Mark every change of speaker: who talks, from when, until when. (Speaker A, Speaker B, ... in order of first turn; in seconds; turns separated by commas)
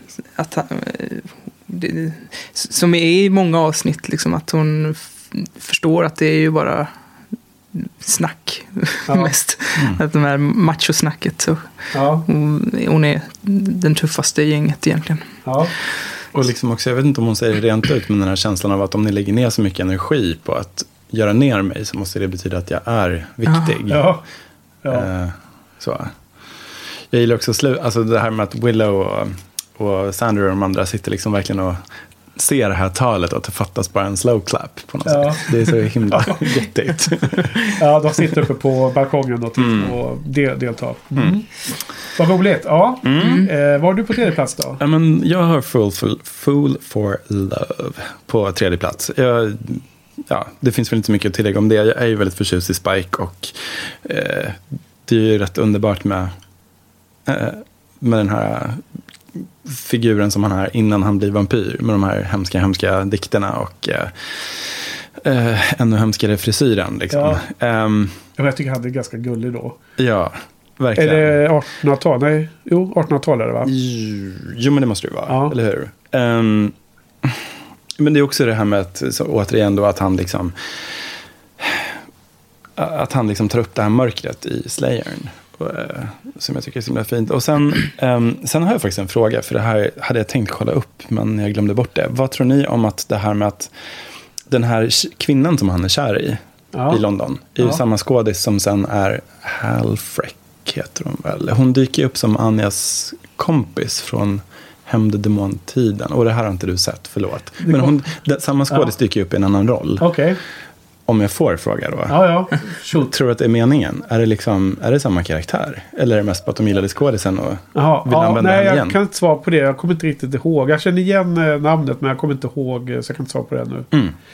Speaker A: 0.3-6.9, Speaker A: 7.7-15.4, Speaker B: 9.1-9.3, Speaker B: 11.9-12.3, Speaker B: 15.4-15.7, Speaker C: 16.3-24.1, Speaker A: 23.5-23.8, Speaker B: 23.9-24.2, Speaker B: 24.8-25.1, Speaker C: 24.9-26.2, Speaker C: 27.1-31.8, Speaker C: 32.4-37.8, Speaker B: 35.0-36.6, Speaker B: 37.4-41.5, Speaker C: 39.6-40.0, Speaker B: 42.1-44.8, Speaker C: 43.0-43.5, Speaker A: 43.2-43.5, Speaker C: 44.8-56.4, Speaker C: 57.3-58.8, Speaker C: 59.4-68.2, Speaker B: 67.1-67.5, Speaker B: 68.4-69.8, Speaker C: 70.0-71.4, Speaker B: 71.0-73.7, Speaker C: 73.6-77.4, Speaker B: 75.3-75.5, Speaker C: 78.0-80.8, Speaker C: 81.6-82.0, Speaker C: 82.8-93.7, Speaker C: 94.5-110.1, Speaker B: 96.7-97.0, Speaker B: 107.6-108.0, Speaker B: 110.0-110.4, Speaker C: 111.1-112.2, Speaker B: 112.1-113.1, Speaker C: 112.8-119.0, Speaker B: 117.8-123.9